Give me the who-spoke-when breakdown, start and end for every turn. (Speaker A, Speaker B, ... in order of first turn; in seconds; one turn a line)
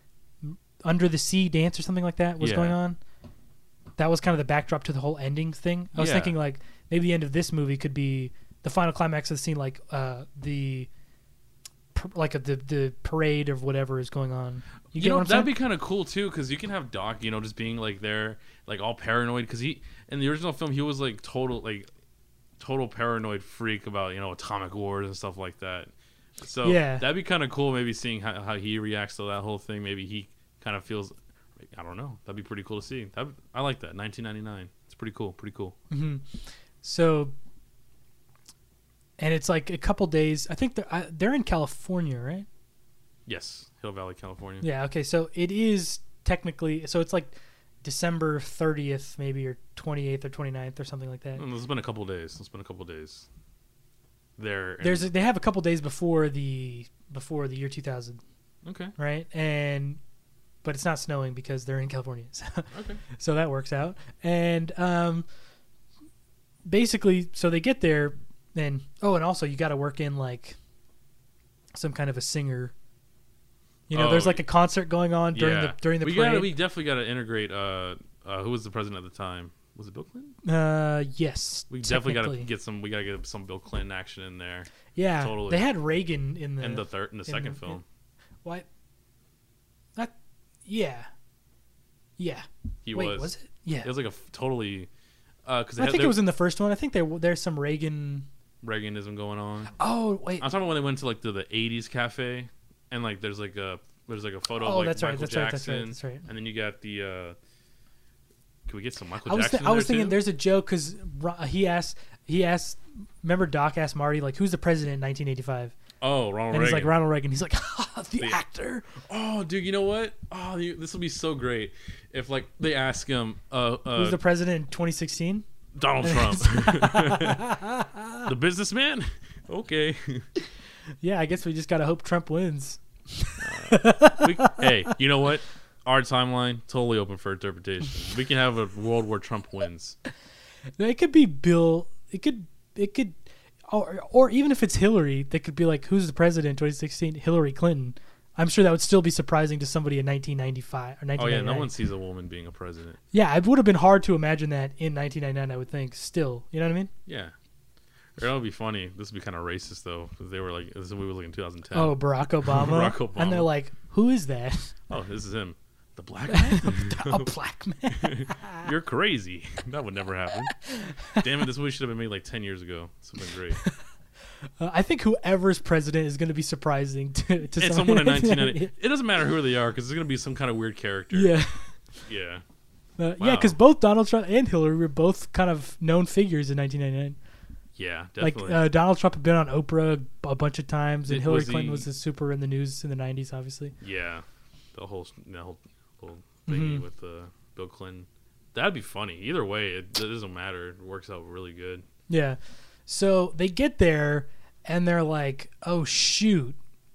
Speaker A: 0.4-3.0
Speaker B: 2.4-2.8
Speaker A: 4.0-10.9
Speaker B: 6.0-6.4
Speaker A: 11.9-15.5
Speaker B: 14.9-21.9
Speaker B: 22.6-35.8
Speaker A: 26.6-27.0
Speaker A: 35.9-36.3
Speaker A: 36.8-37.3
Speaker A: 39.2-42.5
Speaker B: 43.3-44.6
Speaker A: 44.6-51.4
Speaker B: 51.4-53.3
Speaker B: 54.4-55.1
Speaker A: 54.8-58.2
Speaker B: 58.6-58.9
Speaker A: 59.0-60.0
Speaker A: 60.6-65.3
Speaker B: 62.7-63.0
Speaker A: 66.7-70.6
Speaker A: 71.8-72.7
Speaker A: 73.9-76.5
Speaker B: 73.9-74.4
Speaker B: 75.3-80.4
Speaker A: 80.5-82.5
Speaker B: 81.7-85.7
Speaker A: 85.0-87.8
Speaker B: 86.6-87.8
Speaker A: 90.7-91.1
Speaker A: 92.2-93.9
Speaker B: 92.9-93.3
Speaker B: 93.8-94.9
Speaker B: 95.5-96.2
Speaker A: 95.8-98.3
Speaker B: 98.6-99.7
Speaker A: 99.8-100.5
Speaker B: 100.4-107.4
Speaker A: 104.6-106.3
Speaker B: 108.7-110.2
Speaker A: 109.2-115.8
Speaker B: 116.0-117.0
Speaker A: 116.5-118.9
Speaker B: 119.0-124.2
Speaker A: 124.0-125.5
Speaker B: 125.8-127.5
Speaker A: 126.0-128.3
Speaker B: 128.2-130.3
Speaker A: 131.0-134.9
Speaker B: 133.4-140.0
Speaker A: 140.8-143.2
Speaker A: 143.7-151.7
Speaker B: 151.2-153.0
Speaker A: 153.1-156.9
Speaker B: 157.1-157.3
Speaker B: 158.2-163.5
Speaker A: 161.7-164.7
Speaker B: 164.9-167.3
Speaker A: 166.3-168.7
Speaker B: 167.9-170.6
Speaker A: 170.6-171.2
Speaker B: 171.1-173.6
Speaker A: 174.6-178.7
Speaker B: 177.6-181.3
Speaker A: 181.1-181.8
Speaker B: 182.0-182.4
Speaker A: 183.0-187.2
Speaker B: 183.2-183.6
Speaker B: 187.8-188.6
Speaker A: 188.2-193.7
Speaker B: 191.1-191.9
Speaker B: 193.8-201.8
Speaker A: 196.5-196.8
Speaker A: 202.1-206.6